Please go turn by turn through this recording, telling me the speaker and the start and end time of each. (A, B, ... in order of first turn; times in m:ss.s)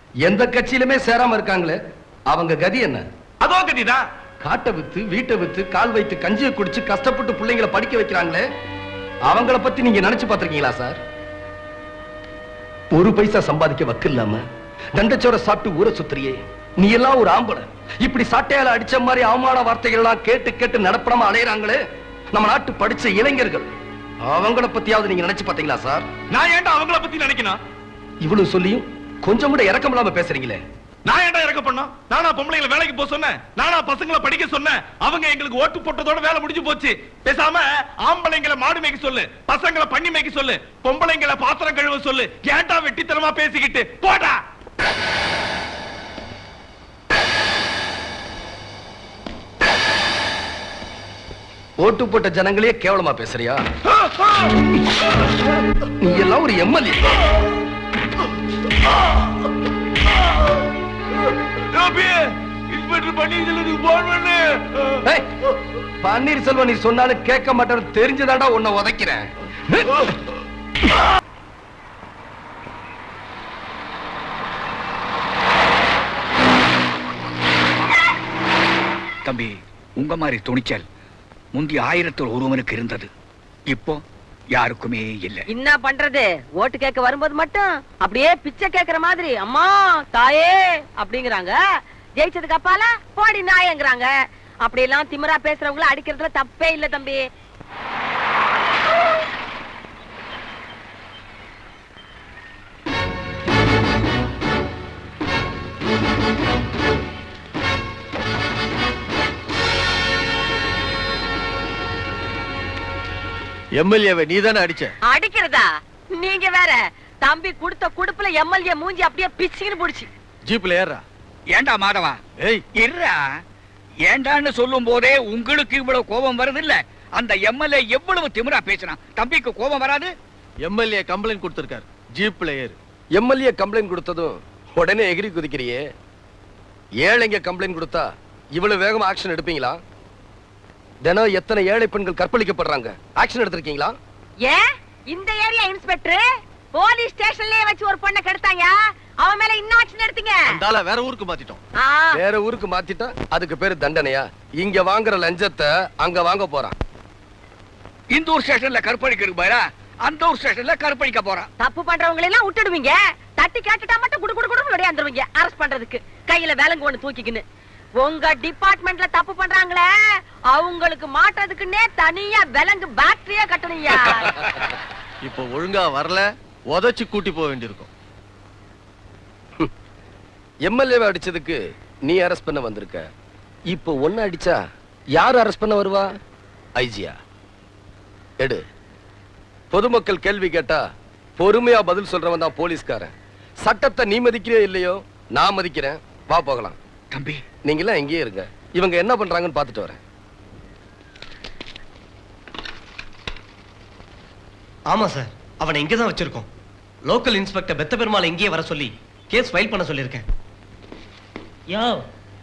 0:00.2-0:01.8 A
0:02.3-0:03.0 A
0:03.4-0:04.0 B
0:04.4-0:08.4 A
0:09.3-0:11.0 A
0:12.9-0:14.4 A
0:15.0-0:21.8 A
0:22.3-0:23.7 A
0:24.3-0:26.0 A
0:26.3-0:27.6 B
0:28.2-0:30.6 A
0:31.0-0:44.4 B
0:51.8-0:53.6 A
0:56.0-0:57.1 A
1:01.8-1:02.2 B
1:02.8-1:04.9 B
1:06.0-1:10.0 A
1:19.2-1:20.8 C
1:21.5-1:23.1 C
1:23.7-1:24.0 C
1:24.5-1:25.4 C
1:25.5-1:31.6 D
1:32.2-1:34.1 D
1:34.6-1:37.2 D
1:53.7-1:54.9 E
1:55.0-2:00.1 D
2:00.4-2:01.0 E
2:01.5-2:02.2 C
2:02.8-2:03.2 C
2:04.1-2:10.1 C
2:10.6-2:12.8 E
2:13.1-2:15.8 A
2:17.0-2:19.8 A
2:21.0-2:23.9 A
2:24.4-2:30.6 D
2:30.5-2:31.6 E
2:31.8-2:32.2 D
2:32.1-2:36.7 A
2:38.1-2:41.5 C
2:41.6-2:47.4 D
2:48.0-2:49.9 D
2:50.5-2:54.3 D
2:55.2-2:57.9 E
3:00.6-3:03.0 A
3:03.7-3:04.6 A
3:05.1-3:06.1 A
3:06.8-3:07.1 A
3:09.7-3:10.8 A
3:11.4-3:13.1 A
3:13.6-3:16.8 A
3:17.1-3:17.4 C
3:17.6-3:20.0 A
3:24.8-3:26.5 F
3:27.0-3:30.2 F